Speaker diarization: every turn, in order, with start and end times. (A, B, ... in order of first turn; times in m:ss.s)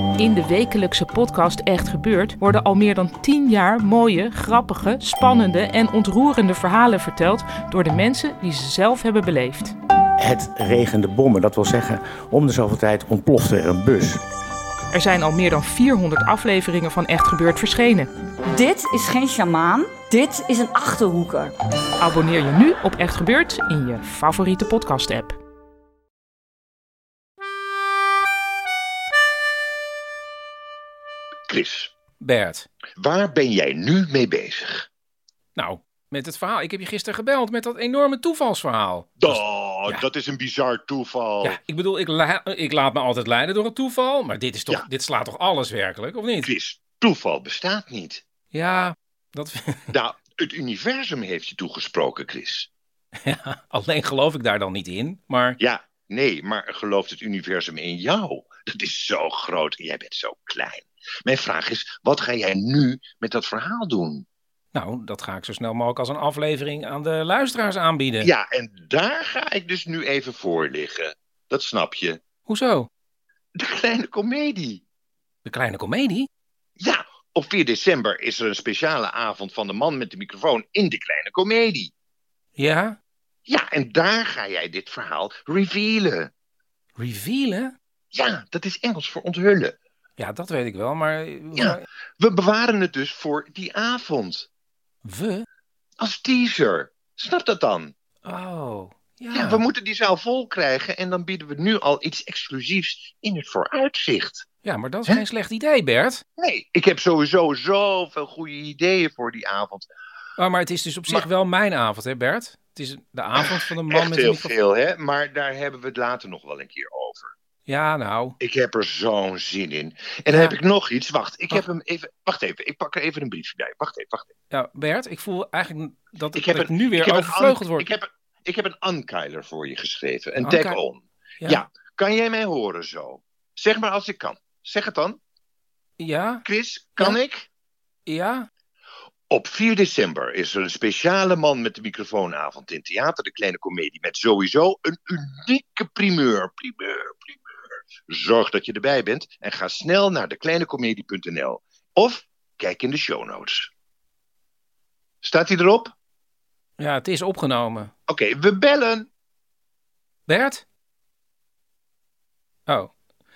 0:00.2-0:09.7 A
0:10.2-0:14.2 B
0:14.9-0:18.1 A
0:18.5-0:21.5 C
0:18.6-0:20.0 B
0:22.0-0:25.4 A
0:31.5-0:31.9 D
0:32.2-0:32.7 E
0:33.0-0:34.9 D
0:35.5-0:40.0 E
0:39.2-0:41.6 D
0:41.4-0:46.5 E
0:46.4-0:48.2 D
0:48.5-0:49.9 E
0:49.9-0:52.7 D
0:53.2-0:55.6 E
0:55.6-1:04.2 D
1:04.7-1:08.3 E
1:08.2-1:12.2 D
1:12.5-1:12.9 E
1:13.6-1:14.8 D
1:15.4-1:16.3 E
1:16.8-1:21.9 D
1:22.6-1:23.0 E
1:23.4-1:26.3 D
1:27.0-1:27.7 E
1:28.1-1:29.7 D
1:30.2-1:31.8 E
1:31.5-1:34.5 D
1:35.0-1:35.4 E
1:36.0-1:37.9 D
1:38.2-1:39.6 E
1:39.3-1:44.4 D
1:44.6-1:46.2 E
1:46.4-1:49.9 D
1:50.4-1:54.5 E
1:53.4-1:57.3 D
1:57.7-1:58.3 E
1:58.4-2:04.3 D
2:00.3-2:00.5 E
2:04.5-2:07.9 E
2:06.3-2:15.2 D
2:10.4-2:10.8 E
2:16.0-2:16.4 E
2:16.4-2:17.5 D
2:18.1-2:18.5 E
2:19.3-2:27.4 D
2:28.1-2:33.7 D
2:35.2-2:35.9 D
2:36.8-2:37.9 E
2:38.1-2:39.1 D
2:40.3-2:40.6 E
2:42.7-2:42.9 E